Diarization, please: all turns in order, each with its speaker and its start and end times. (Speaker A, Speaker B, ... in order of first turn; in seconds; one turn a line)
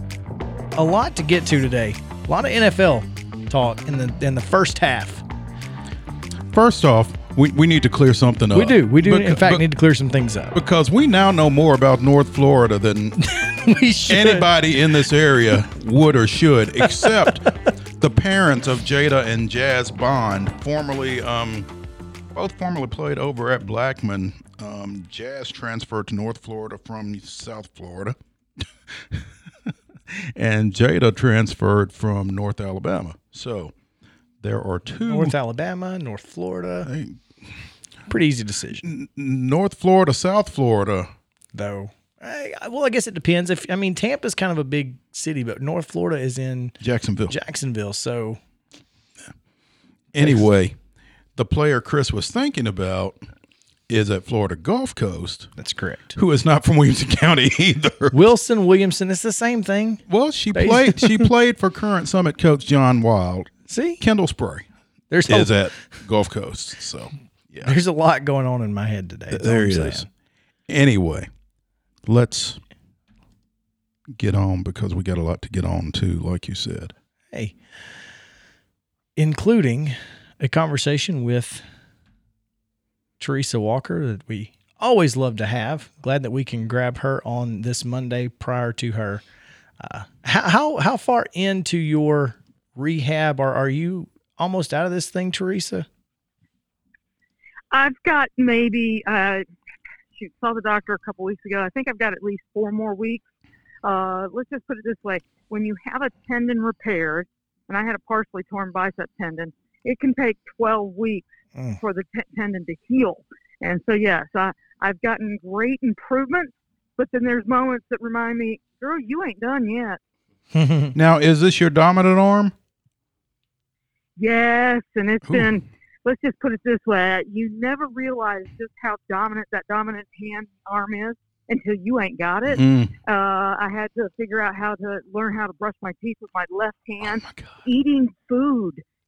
Speaker A: 0.7-5.2
Speaker B: 6.5-9.7
Speaker A: 8.5-10.6
Speaker B: 10.5-13.2
Speaker A: 13.2-14.5
Speaker B: 14.1-17.5
Speaker A: 16.8-17.5
Speaker B: 18.0-21.7
Speaker B: 22.3-28.1
Speaker B: 29.0-29.3
Speaker B: 30.1-33.7
Speaker B: 34.4-35.4
Speaker A: 35.1-36.9
Speaker B: 36.9-37.3
Speaker A: 38.1-38.9
Speaker B: 38.8-41.1
Speaker A: 41.5-48.4
Speaker B: 46.8-47.3
Speaker B: 50.1-50.8
Speaker B: 51.4-53.2
Speaker B: 53.9-55.5
Speaker A: 55.6-56.2
Speaker B: 56.1-58.3
Speaker A: 58.1-61.3
Speaker B: 60.1-64.6
Speaker A: 63.7-64.0
Speaker A: 65.1-66.0
Speaker B: 65.3-67.7
Speaker A: 67.6-70.1
Speaker B: 69.3-70.0
Speaker B: 70.7-71.3
Speaker B: 72.0-72.6
Speaker B: 74.2-76.9
Speaker A: 77.3-77.6
Speaker A: 79.2-81.6
Speaker A: 83.2-89.2
Speaker A: 89.8-95.9
Speaker C: 97.7-99.4
Speaker C: 100.2-103.2
Speaker C: 103.8-111.3
Speaker A: 111.5-111.8
Speaker C: 111.8-120.0
Speaker A: 120.5-121.0
Speaker B: 120.9-122.5
Speaker C: 124.2-138.8
Speaker B: 125.3-125.5
Speaker B: 132.5-132.9
Speaker B: 137.0-137.6